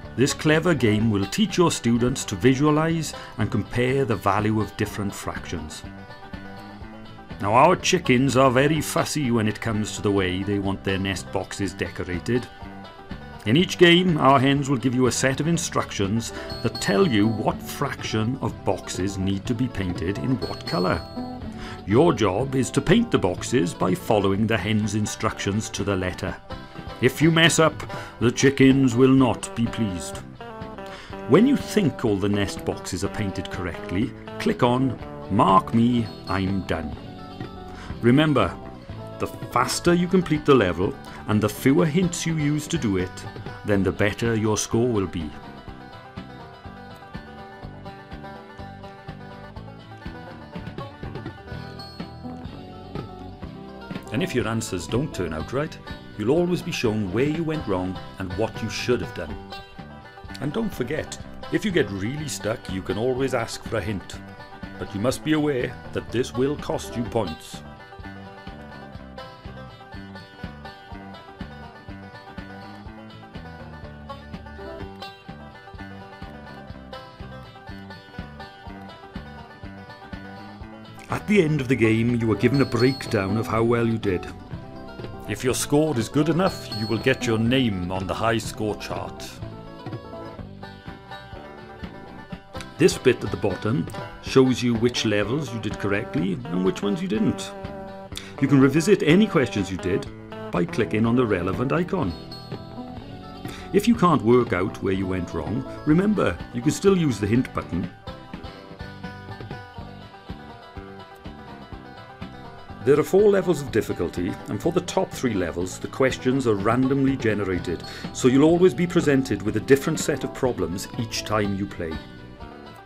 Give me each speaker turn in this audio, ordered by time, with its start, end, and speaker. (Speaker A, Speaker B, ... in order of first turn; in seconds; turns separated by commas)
Speaker A: 0.1-5.8, Speaker A: 7.4-12.5, Speaker A: 13.4-21.1, Speaker A: 21.9-26.4, Speaker A: 27.0-30.2, Speaker A: 31.3-37.0, Speaker A: 38.0-38.6, Speaker A: 39.2-45.4, Speaker A: 54.1-59.4, Speaker A: 60.4-64.2, Speaker A: 64.8-67.6, Speaker A: 81.1-84.3, Speaker A: 85.3-89.4, Speaker A: 92.8-97.6, Speaker A: 98.4-102.2, Speaker A: 103.7-107.9, Speaker A: 112.8-122.0